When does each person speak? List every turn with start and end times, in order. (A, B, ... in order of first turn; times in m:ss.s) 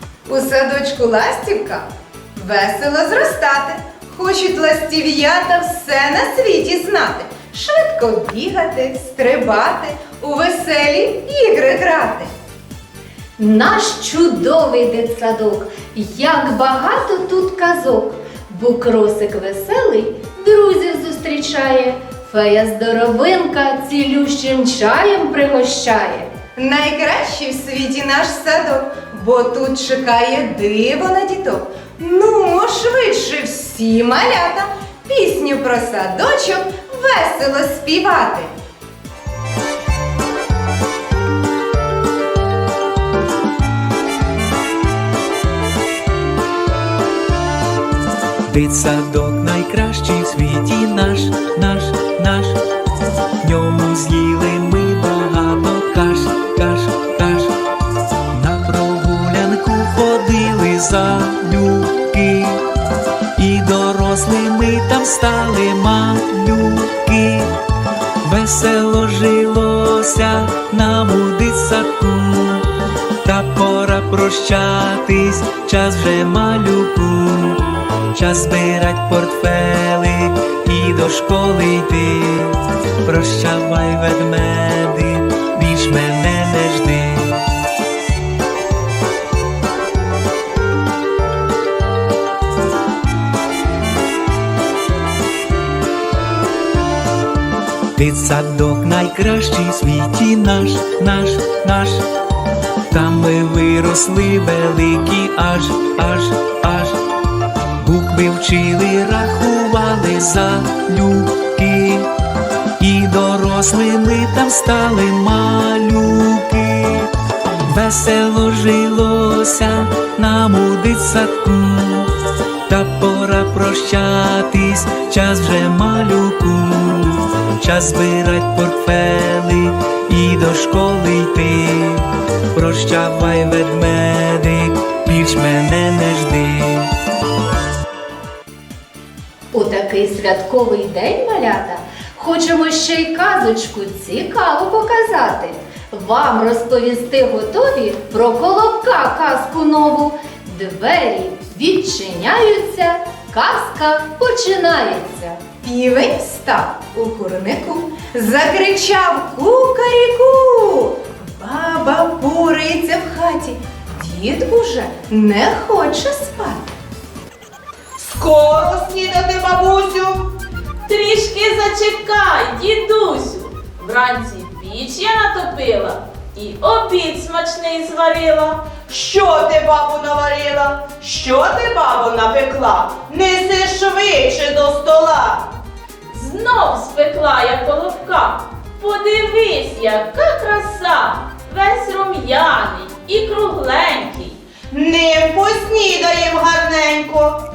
0:00.2-0:12.3 A
0:13.4-0:26.3 B
0:26.5-0:38.5 A
0:48.4-0:52.6 C
0:53.4-0:57.5 C
0:58.3-1:02.6 C
1:03.4-1:07.5 C
1:08.2-1:12.7 C
1:13.2-1:17.6 C
1:18.1-1:27.4 C
1:37.9-1:42.0 C
1:42.9-1:47.0 C
1:47.8-1:52.1 C
1:52.8-1:57.1 C
1:57.6-2:02.1 C
2:02.7-2:16.9 C
2:19.5-2:35.4 B
2:35.6-2:46.7 A
2:50.9-2:58.7 D
2:59.0-3:05.5 E
3:06.1-3:14.4 D
3:14.7-3:17.2 E